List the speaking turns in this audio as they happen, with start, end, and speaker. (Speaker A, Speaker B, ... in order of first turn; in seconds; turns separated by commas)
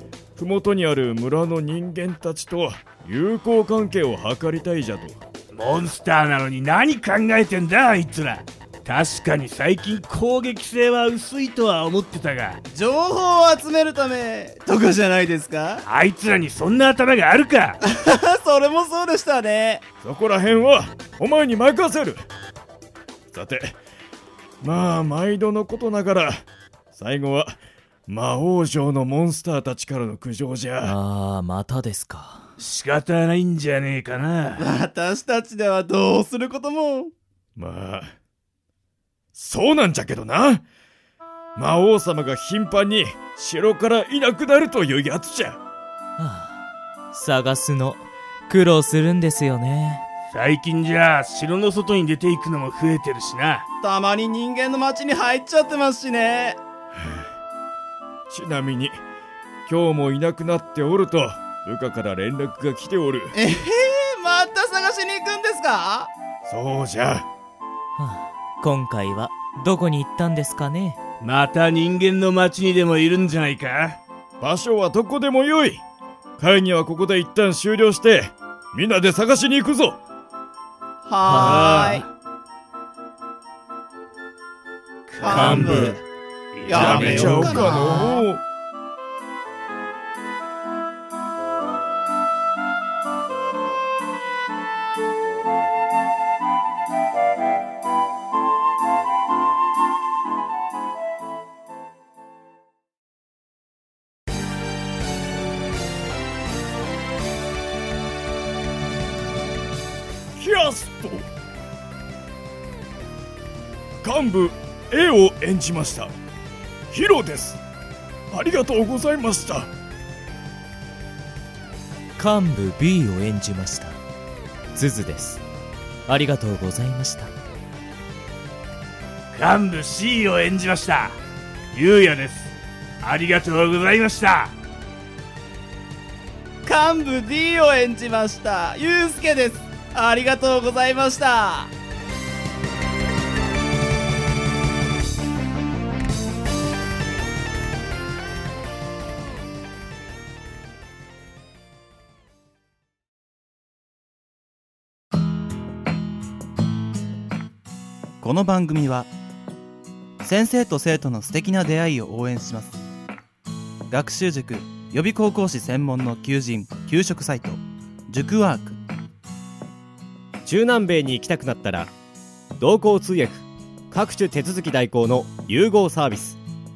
Speaker A: 0.3-5.2, Speaker B: 5.5-12.6, Speaker C: 12.7-15.8, Speaker B: 15.8-17.8, Speaker C: 17.8-19.8, Speaker A: 20.0-22.3, Speaker A: 23.3-23.8, Speaker A: 24.6-30.9, Speaker D: 30.8-32.4, Speaker B: 32.6-34.7, Speaker C: 34.6-37.1, Speaker A: 37.6-38.1, Speaker A: 39.3-40.6, Speaker A: 41.5-45.6, Speaker D: 46.2-50.0, Speaker B: 50.3-53.6, Speaker C: 53.8-56.6, Speaker A: 58.3-59.0, Speaker A: 59.7-63.3, Speaker C: 63.3-66.1, Speaker A: 66.5-67.3, Speaker D: 68.0-71.0, Speaker B: 71.2-74.0, Speaker A: 74.4-75.8, Speaker A: 76.4-80.0, Speaker C: 81.0-82.0, Speaker D: 81.2-82.0, Speaker B: 81.7-82.0, Speaker B: 85.1-85.9, Speaker C: 85.2-86.0, Speaker A: 85.3-86.0, Speaker B: 86.5-87.9, Speaker C: 86.7-88.2, Speaker A: 86.7-88.4, Speaker A: 110.3-111.3, Speaker A: 114.0-116.1, Speaker A: 116.9-117.6, Speaker A: 118.3-119.7, Speaker D: 122.2-124.0, Speaker D: 124.7-125.4, Speaker D: 126.1-127.3, Speaker B: 129.3-131.2, Speaker B: 131.7-134.5, Speaker C: 136.6-141.7, Speaker E: 158.2-159.1, Speaker E: 160.2-162.8, Speaker E: 163.9-168.8, Speaker F: 170.4-171.9, Speaker F: 172.6-176.4